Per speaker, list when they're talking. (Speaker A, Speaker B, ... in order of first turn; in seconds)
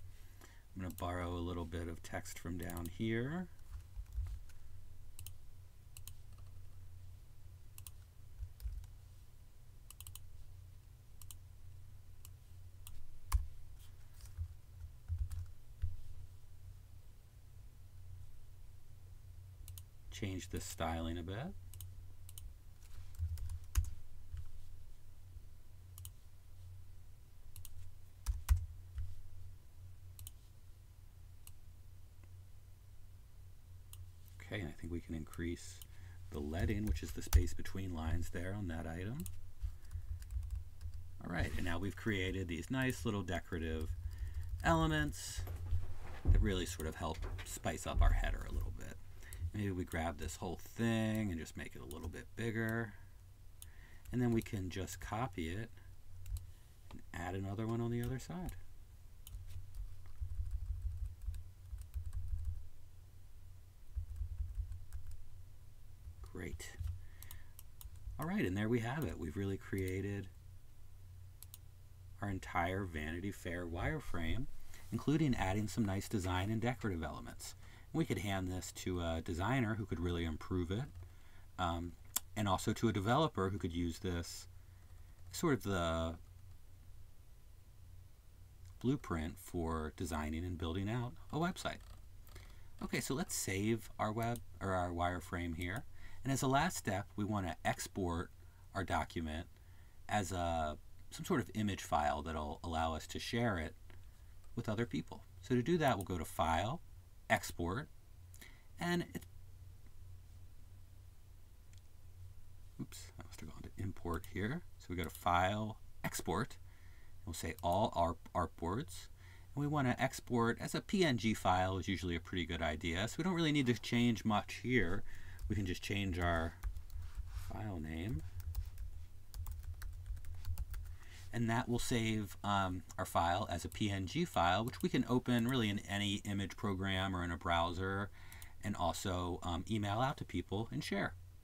Speaker A: 0.7-3.5, 20.1-21.6, 34.4-39.3, 41.2-44.0, 44.6-45.5, 46.3-49.0, 49.5-53.0, 54.1-55.8, 56.9-58.6, 66.2-66.8, 68.2-70.3, 72.2-80.9, 81.6-84.5, 85.3-86.2, 88.8-91.8, 92.8-99.5, 100.1-103.8, 104.5-107.9, 108.8-109.3, 112.8-116.6, 117.2-126.6, 127.5-128.2, 131.3-141.2